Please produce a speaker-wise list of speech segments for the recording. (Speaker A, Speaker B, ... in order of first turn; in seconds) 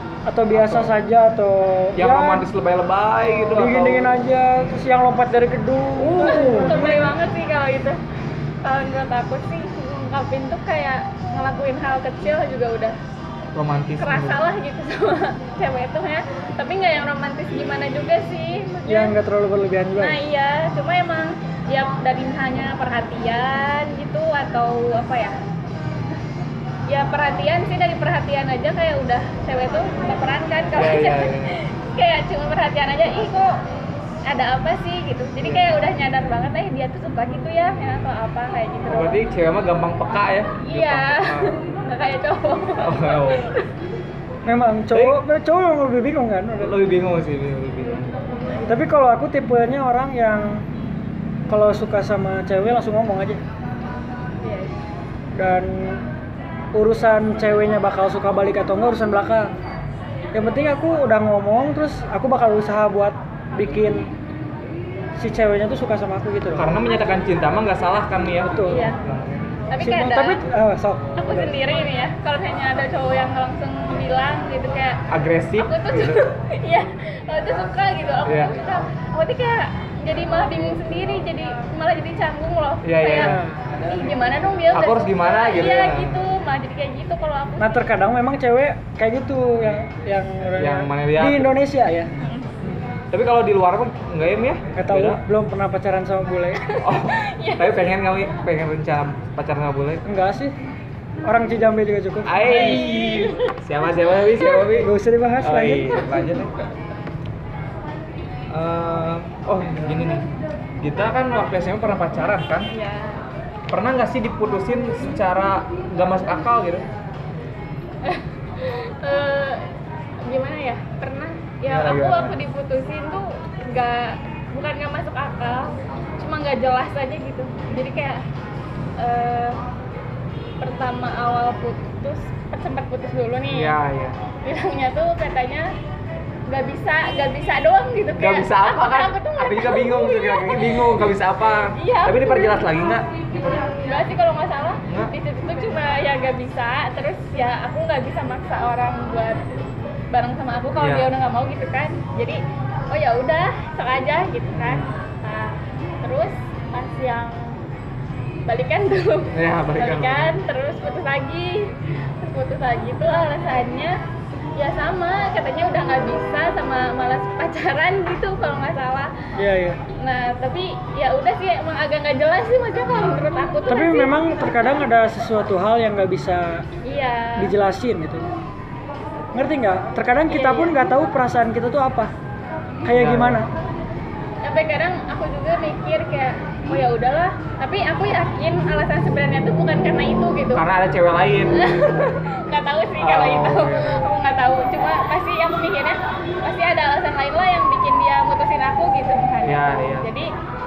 Speaker A: 0.3-2.5, 3.5-7.1, 18.9-20.2, 44.5-46.8, 48.7-50.7, 51.5-53.4, 55.4-56.0, 56.7-59.5, 60.3-64.1, 65.2-66.8, 68.4-68.9, 69.8-71.5, 83.1-83.7, 87.6-92.1, 94.8-96.6, 100.0-100.5, 101.2-102.9, 104.7-106.0, 169.4-169.8, 173.7-176.7, 177.4-178.3, 179.3-182.1, 182.8-183.5
Speaker B: 0.5-1.0, 2.0-4.1, 6.0-7.0, 13.5-14.4, 30.7-31.6, 35.4-35.7, 38.9-41.8, 42.8-43.5, 44.9-45.2, 46.6-48.1, 66.6-69.5, 75.1-76.3, 78.2-78.6, 82.8-83.4, 84.7-86.2, 90.6-91.5, 93.1-95.2, 96.8-100.0, 102.3-104.9, 105.4-106.7, 108.5-110.3, 110.8-112.7, 113.7-116.9, 121.7-122.4, 133.5-134.2, 138.2-143.2, 144.9-145.1, 150.8-151.1, 154.5-155.0, 159.3-160.4, 172.9-173.3, 182.9-183.4, 190.6-191.7, 193.0-194.1, 199.4-200.1
Speaker C: 6.2-8.0, 8.6-13.0, 14.0-19.1, 20.0-25.4, 26.9-33.6, 34.3-39.2, 40.6-43.7, 54.4-54.8, 68.7-69.0, 69.7-70.4, 71.2-75.0, 75.6-87.8, 92.2-92.5, 96.6-97.9, 102.5-103.6, 104.2-104.7, 106.0-106.4, 112.7-113.2, 118.0-119.7, 120.2-128.2, 129.0-129.6, 130.6-133.8, 134.4-135.7, 136.5-141.1, 141.7-149.6, 150.1-157.6, 158.5-164.0, 164.6-169.1, 170.0-174.2, 176.8-177.5, 180.3-180.7, 184.4-190.6, 191.5-200.3